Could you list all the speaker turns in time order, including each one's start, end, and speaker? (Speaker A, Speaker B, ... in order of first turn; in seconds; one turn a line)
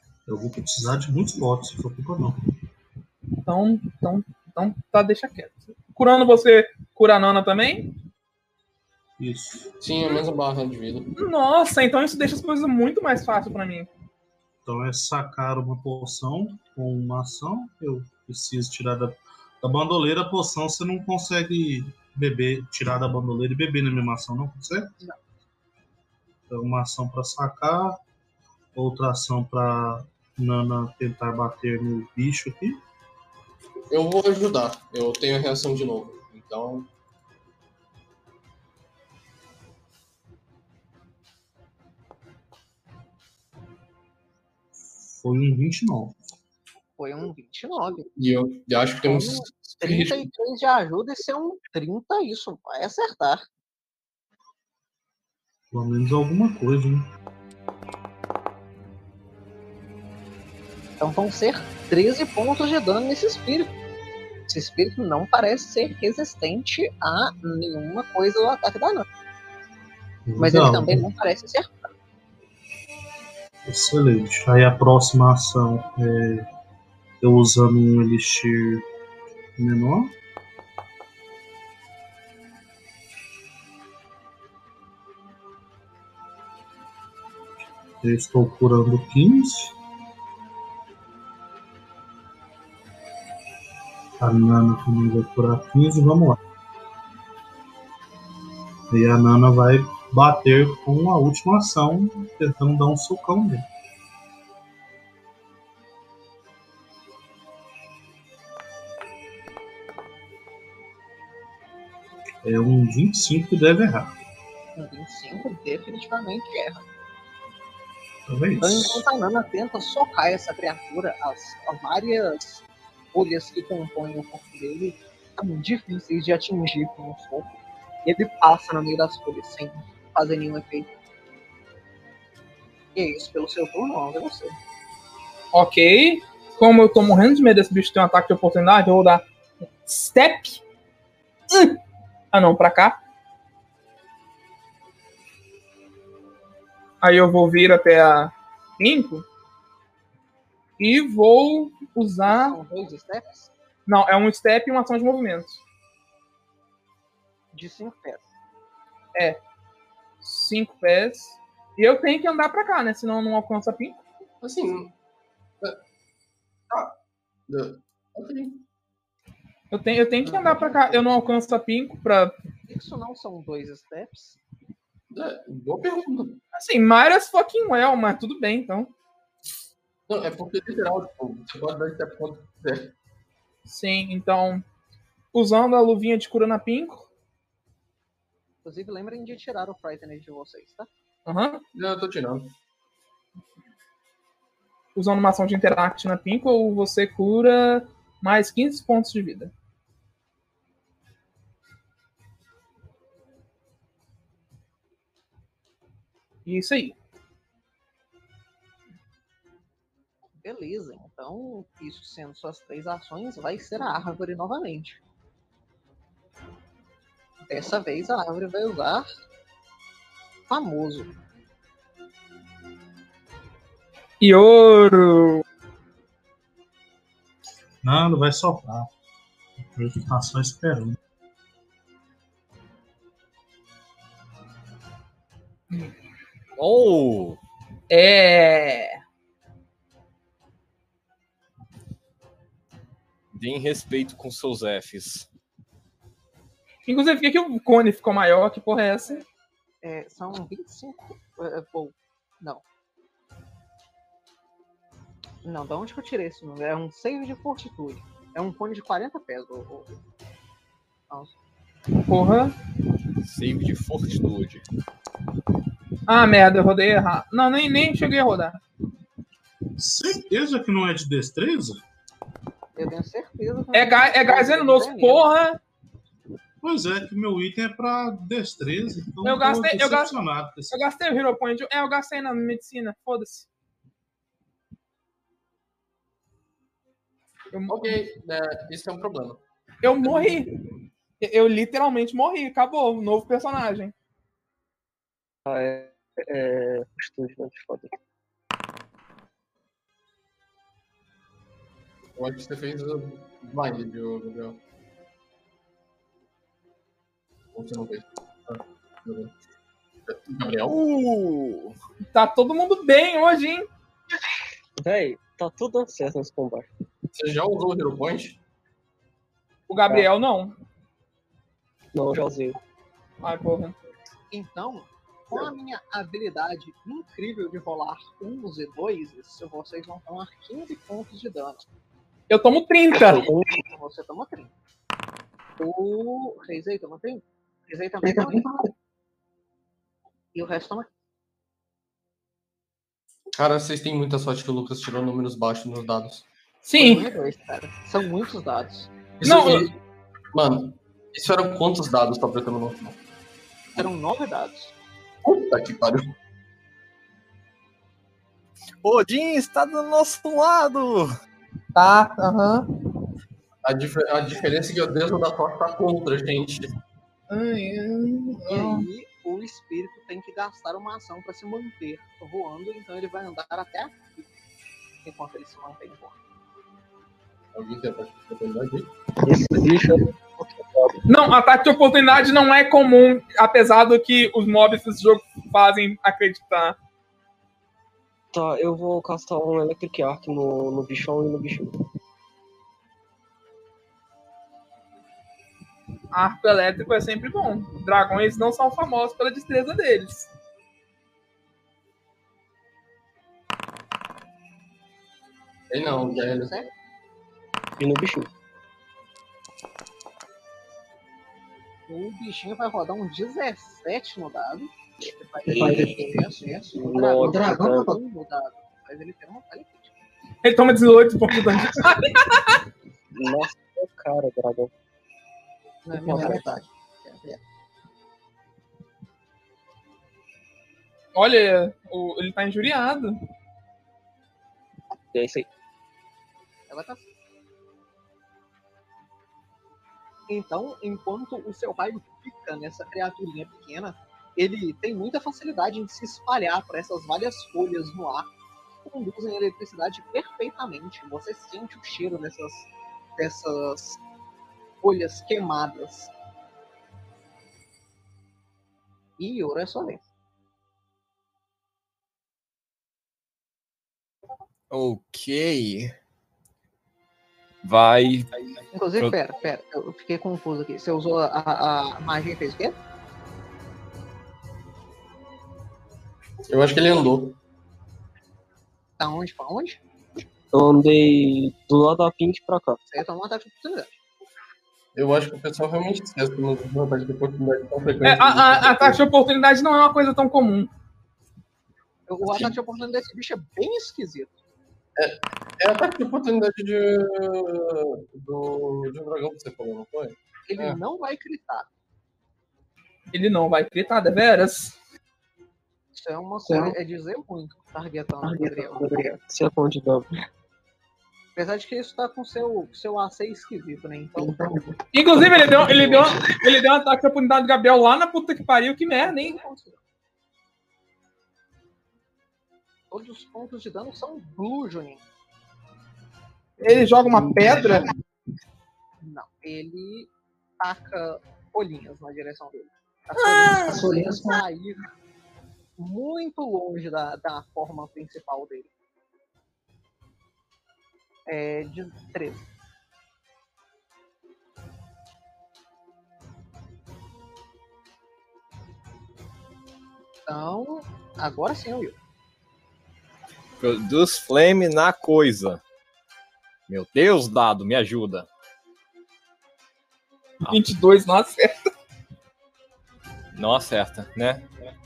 Speaker A: 0.3-2.4
Speaker B: 3.5-7.9
Speaker A: 9.2-9.7
Speaker C: 9.8-11.1
Speaker B: 11.2-13.9
Speaker A: 14.7-24.9
Speaker A: 26.5-28.0
Speaker A: 28.8-32.8
Speaker C: 33.9-36.9
Speaker A: 45.0-46.2
Speaker D: 47.0-48.1
Speaker C: 48.2-50.3
Speaker D: 49.0-53.5
Speaker A: 55.7-57.1
Speaker D: 61.0-63.7
Speaker D: 64.5-69.1
Speaker A: 70.3-71.1
Speaker D: 70.4-71.9
Speaker A: 73.7-76.5
Speaker A: 77.2-78.9
Speaker A: 79.6-80.1
Speaker A: 88.0-89.8
Speaker A: 94.2-96.4
Speaker A: 98.9-103.7
Speaker A: 112.4-114.1
Speaker D: 114.8-116.8
Speaker A: 118.3-119.0
Speaker D: 118.6-122.6
Speaker D: 123.1-127.5
Speaker D: 128.1-130.9
Speaker D: 132.9-134.6
Speaker B: 135.5-139.3
Speaker B: 139.8-140.6
Speaker B: 141.5-141.8
Speaker B: 142.3-143.0
Speaker B: 147.0-149.2
Speaker B: 150.8-152.6
Speaker D: 152.3-153.5
Speaker B: 153.9-155.6
Speaker D: 157.5-158.2
Speaker B: 159.2-159.4
Speaker B: 160.2-164.0
Speaker C: 164.4-164.9
Speaker C: 166.7-168.6
Speaker B: 169.7-172.3
Speaker D: 170.2-171.1
Speaker D: 172.7-174.4
Speaker C: 175.1-176.4
Speaker B: 176.5-178.9
Speaker C: 180.1-182.9
Speaker B: 183.7-184.6
Speaker B: 185.3-187.1
Speaker D: 188.6-190.9
Speaker B: 191.3-191.6
Speaker C: 191.8-192.6
Speaker B: 194.9-199.5
Speaker B: 206.5-206.9
Speaker D: 210.4-215.0
Speaker D: 217.5-219.1
Speaker D: 220.5-221.1
Speaker B: 224.2-225.4
Speaker A: 227.8-228.9
Speaker A: 229.7-231.0
Speaker E: 236.6-237.4
Speaker B: 237.9-239.0
Speaker E: 243.3-245.3
Speaker B: 246.9-249.2
Speaker D: 249.8-252.6
Speaker D: 255.4-260.0
Speaker D: 261.1-261.4
Speaker B: 262.1-262.6
Speaker E: 263.2-264.6
Speaker B: 266.1-268.6
Speaker A: 269.8-271.8
Speaker D: 272.8-275.3
Speaker B: 273.7-275.6
Speaker A: 276.6-280.8
Speaker B: 279.2-280.1
Speaker B: 280.7-283.5
Speaker B: 287.5-288.0
Speaker C: 287.7-289.4
Speaker B: 289.8-290.5
Speaker B: 291.2-293.9
Speaker F: 295.5-297.9
Speaker C: 302.2-304.6
Speaker C: 307.5-309.3
Speaker C: 310.1-310.8
Speaker E: 310.7-311.8
Speaker B: 312.1-313.7
Speaker F: 314.8-316.7
Speaker C: 317.1-318.4
Speaker B: 319.7-320.5
Speaker F: 321.9-322.6
Speaker B: 323.2-323.8
Speaker D: 324.3-331.6
Speaker B: 332.3-333.2
Speaker F: 333.0-333.7
Speaker D: 333.6-334.5
Speaker D: 335.6-338.5
Speaker F: 338.0-338.6
Speaker D: 340.4-340.9
Speaker C: 343.4-346.3
Speaker B: 346.6-347.1
Speaker D: 346.7-348.9
Speaker C: 349.2-349.7
Speaker B: 349.2-349.7
Speaker C: 350.3-353.0
Speaker D: 353.8-354.7
Speaker C: 355.2-356.1
Speaker E: 358.8-361.1
Speaker B: 361.8-362.7
Speaker C: 363.6-366.7
Speaker B: 367.3-368.9
Speaker D: 368.5-374.3
Speaker D: 375.0-376.2
Speaker C: 377.6-378.9
Speaker F: 379.2-381.0
Speaker B: 381.1-386.8
Speaker F: 388.3-391.7
Speaker B: 396.1-400.3
Speaker C: 405.7-406.7
Speaker D: 405.8-406.7
Speaker F: 407.8-408.3
Speaker D: 411.9-419.9
Speaker F: 415.5-416.1
Speaker F: 416.7-417.9
Speaker B: 420.4-422.6
Speaker F: 423.1-424.7
Speaker D: 425.9-427.4
Speaker F: 425.9-426.4
Speaker B: 431.1-433.1
Speaker F: 435.1-435.5
Speaker D: 436.7-437.1
Speaker D: 440.3-448.3
Speaker D: 448.8-454.0
Speaker D: 454.8-456.1
Speaker D: 459.2-460.0
Speaker E: 464.7-465.9
Speaker E: 467.6-469.2
Speaker D: 468.8-472.8
Speaker C: 476.5-477.4
Speaker D: 479.0-479.8
Speaker F: 480.5-482.8
Speaker D: 482.9-484.0
Speaker C: 484.9-489.0
Speaker B: 488.0-490.7
Speaker D: 492.1-494.4
Speaker C: 495.0-500.8
Speaker D: 500.5-501.7
Speaker B: 503.1-504.8
Speaker D: 505.9-508.9
Speaker F: 506.5-506.7
Speaker F: 508.2-510.2
Speaker D: 511.4-514.5
Speaker F: 514.2-514.8
Speaker B: 514.9-519.4
Speaker F: 515.7-516.4
Speaker D: 519.0-519.8
Speaker D: 522.9-525.0
Speaker B: 526.6-527.9
Speaker D: 529.0-534.9
Speaker B: 533.2-533.9
Speaker D: 535.8-538.7
Speaker D: 541.3-542.5
Speaker D: 550.3-552.0
Speaker E: 553.6-555.6
Speaker E: 556.7-558.3
Speaker B: 560.5-561.5
Speaker E: 563.4-564.7